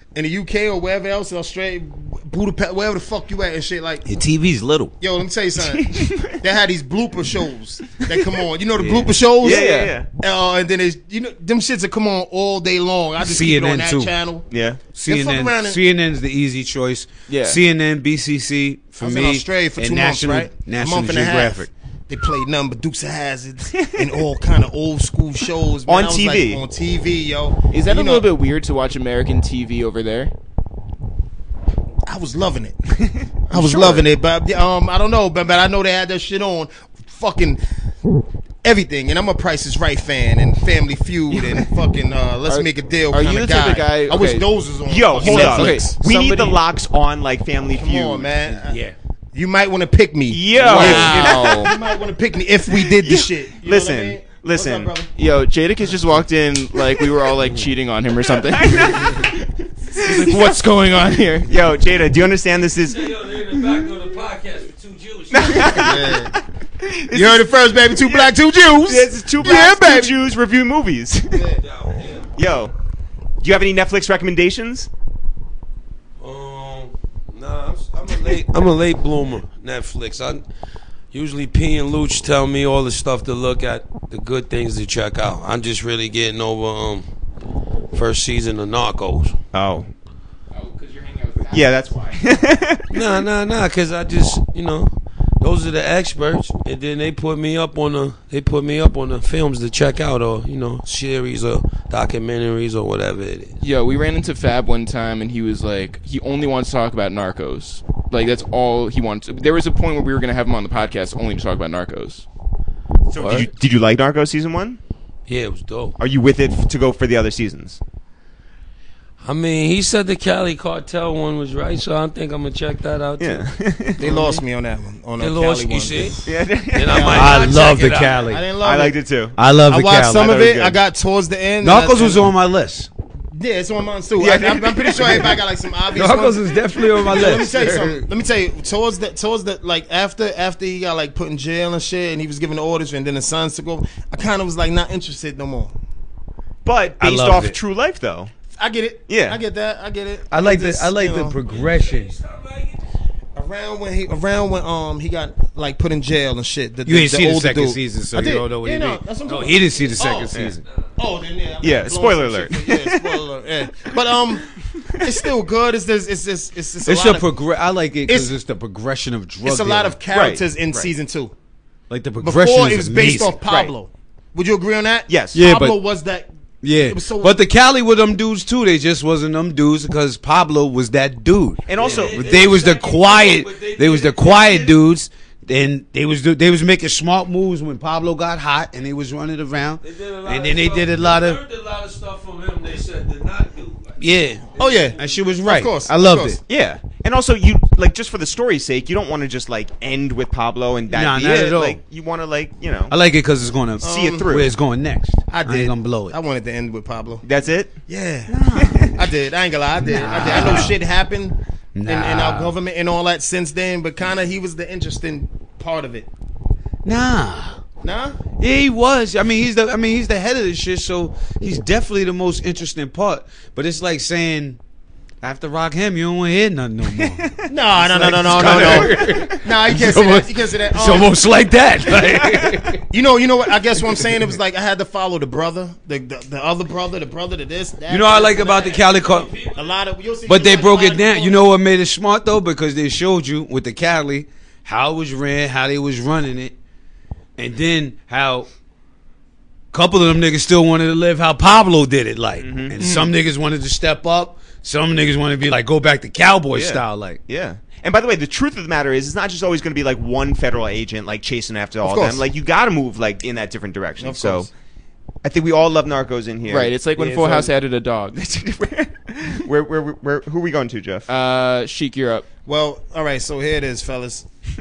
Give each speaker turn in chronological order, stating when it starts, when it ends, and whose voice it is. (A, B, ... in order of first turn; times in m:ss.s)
0:00.2-0:04.0 A
0:04.0-0:04.9 B
0:05.0-0:14.5 A
0:05.6-0:06.4 C
0:08.8-0:09.2 B
0:09.4-0:10.1 C
0:09.4-0:09.9 D
0:13.2-0:14.1 B
0:14.5-0:14.8 C
0:14.9-0:21.7 B
0:15.1-0:15.8 A
0:17.3-0:17.6 D
0:19.0-0:28.3 A
0:23.7-0:24.1 C
0:25.9-0:26.6 C
0:27.7-0:30.3 D
0:32.1-0:33.0 A
0:33.5-0:37.6 A
0:33.5-0:34.0 D
0:33.7-0:34.0 C
0:38.6-0:46.0 A
0:42.5-0:44.5 D
0:44.9-0:48.6 C
0:45.2-0:46.6 D
0:47.7-0:48.8 A
0:49.3-0:55.1 A
0:50.3-0:51.8 C
0:50.6-0:51.7 D
0:52.7-0:54.9 C
0:55.2-0:59.2 D
0:58.3-1:00.5 C
0:59.9-1:01.5 D
1:01.5-1:03.1 C
1:02.8-1:05.9 E
1:05.3-1:11.5 C
1:05.6-1:06.4 A
1:07.1-1:10.1 A
1:11.3-1:11.6 A
1:11.6-1:12.3 E
1:12.4-1:12.7 C
1:13.4-1:14.9 C
1:16.2-1:20.4 E
1:21.1-1:27.1 E
1:27.9-1:29.4 E
1:29.5-1:29.9 C
1:30.5-1:32.2 D
1:31.5-1:32.9 C
1:32.9-1:43.6 E
1:43.6-1:52.3 D
1:53.1-1:54.8 C
1:53.2-1:53.5 E
1:55.3-1:56.0 E
1:56.0-1:57.8 C
1:59.2-2:03.5 E
2:03.2-2:04.3 C
2:04.0-2:06.3 A
2:05.2-2:08.3 E
2:06.2-2:07.4 C
2:06.9-2:09.0 A
2:07.1-2:08.4 B
2:08.6-2:09.4 C
2:09.4-2:10.4 B
2:09.7-2:12.3 A
2:10.1-2:10.8 C
2:11.6-2:12.9 B
2:13.3-2:25.7 A
2:14.2-2:15.4 C
2:15.9-2:18.0 B
2:26.6-2:28.3 C
2:27.0-2:27.6 B
2:28.5-2:31.4 A
2:29.1-2:29.4 C
2:30.3-2:32.2 B
2:31.5-2:32.9 E
2:33.4-2:40.5 A
2:36.9-2:40.6 B
2:40.3-2:40.6 C
2:41.0-2:44.5 A
2:41.6-2:43.2 C
2:45.0-2:47.3 A
2:46.8-2:50.0 B
2:48.1-2:48.3 A
2:49.4-2:51.3 A
2:50.1-2:50.9 C
2:51.9-2:53.4 B
2:52.2-2:57.4 A
2:55.1-2:55.4 C
2:55.3-2:55.8 B
2:56.6-3:11.4 B
3:01.7-3:02.3 C
3:01.8-3:04.8 E
3:09.8-3:15.3 E
3:14.0-3:16.4 B
3:14.6-3:16.4 A
3:16.5-3:22.9 C
3:20.9-3:21.8 B
3:22.9-3:26.2 B
3:23.8-3:24.3 A
3:23.8-3:24.5 C
3:25.3-3:27.2 A
3:27.2-3:27.8 C
3:27.9-3:28.4 A
3:28.3-3:28.9 B
3:28.5-3:29.0 C
3:29.0-3:36.1 A
3:29.8-3:30.8 B
3:30.4-3:30.6 C
3:31.8-3:32.5 B
3:36.8-3:37.6 B
3:37.8-3:38.2 A
3:38.4-3:44.6 B
3:45.2-3:52.8 B
3:47.0-3:47.5 C
3:47.5-3:51.1 A
3:48.6-3:48.8 C
3:49.0-3:49.3 E
3:52.9-3:58.8 A
3:53.9-3:54.2 B
3:57.9-3:59.3 B
3:58.1-3:59.8 E
3:59.5-4:01.4 A
4:00.3-4:06.6 B
4:07.4-4:08.5 B
4:09.7-4:17.2 B
4:12.4-4:12.8 C
4:12.8-4:13.1 D
4:16.5-4:24.5 C
4:21.8-4:22.2 A
4:24.0-4:24.5 A
4:25.2-4:26.7 C
4:26.5-4:28.2 D
4:27.0-4:27.5 B
4:28.2-4:31.1 C
4:31.1-4:32.2 D
4:32.5-4:34.2 A